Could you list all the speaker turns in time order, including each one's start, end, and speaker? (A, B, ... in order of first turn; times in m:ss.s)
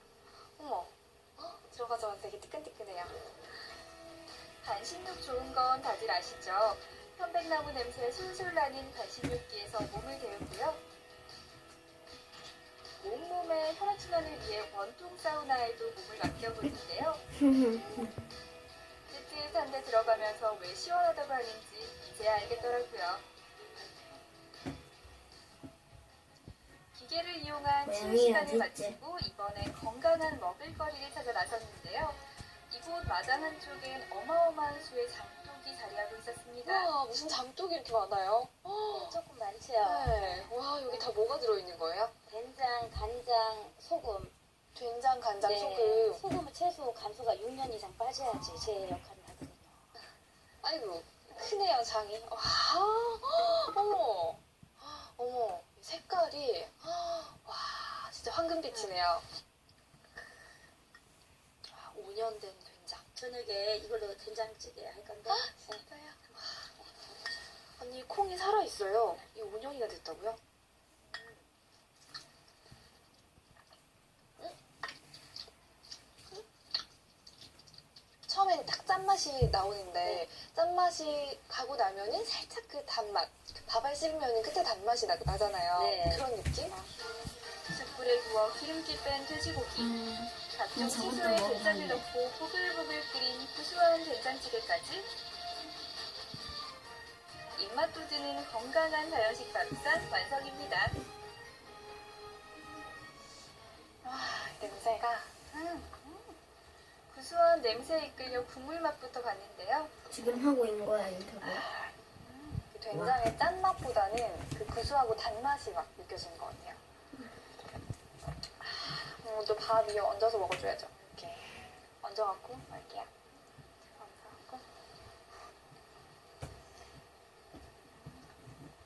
0:00.6-0:03.1 A
0:04.6-0:10.8 B
0:13.0-0:17.3 B
0:17.4-0:18.1 C
0:19.1-0:23.2 B
0:26.9-0:36.9 B
0:27.8-0:29.0 C
0:36.6-0:39.2 A
0:38.9-0:41.2 D
0:39.8-0:42.1 A
0:42.3-0:44.3 D
0:44.8-0:46.2 A
0:45.4-0:49.8 D
0:50.6-0:59.2 A
1:01.7-1:03.1 A
1:03.1-1:05.8 D
1:05.3-1:06.7 A
1:06.8-1:07.2 D
1:07.8-1:10.4 A
1:11.1-1:11.4 D
1:18.3-1:26.8 A
1:25.8-1:26.8 D
1:27.7-1:35.1 B
1:29.8-1:32.0 C
1:37.6-1:41.0 B
1:44.0-1:45.5 A
1:45.5-1:46.3 B
1:47.1-1:49.9 B
1:50.1-1:51.6 C
1:51.6-1:51.9 A
1:52.3-1:52.6 B
1:52.7-1:56.8 A
1:52.9-1:53.2 C
1:58.6-2:03.1 A
2:04.0-2:04.6 A